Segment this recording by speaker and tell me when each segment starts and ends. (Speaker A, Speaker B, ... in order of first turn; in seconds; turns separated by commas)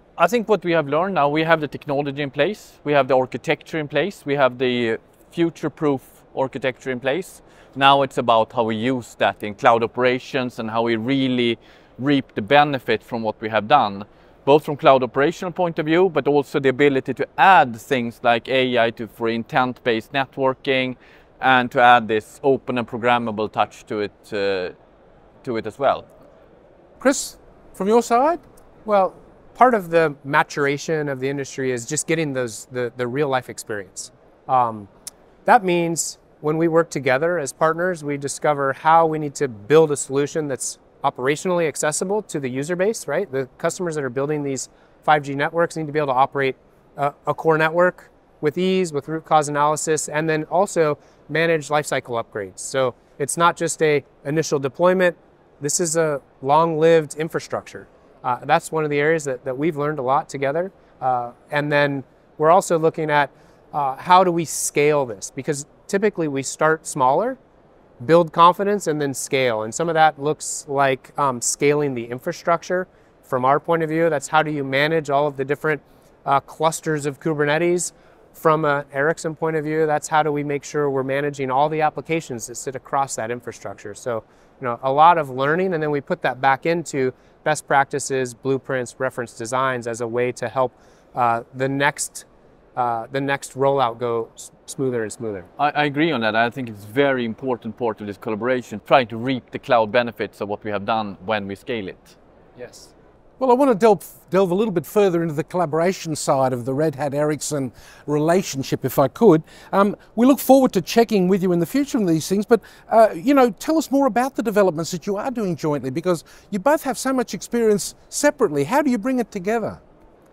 Speaker A: 0.2-24.8, Speaker A: 25.4-26.1, Speaker B: 27.0-28.4, Speaker C: 28.9-34.9, Speaker C: 35.5-67.4, Speaker C: 68.0-95.5, Speaker A: 95.6-102.2, Speaker C: 102.6-102.9, Speaker B: 103.4-119.8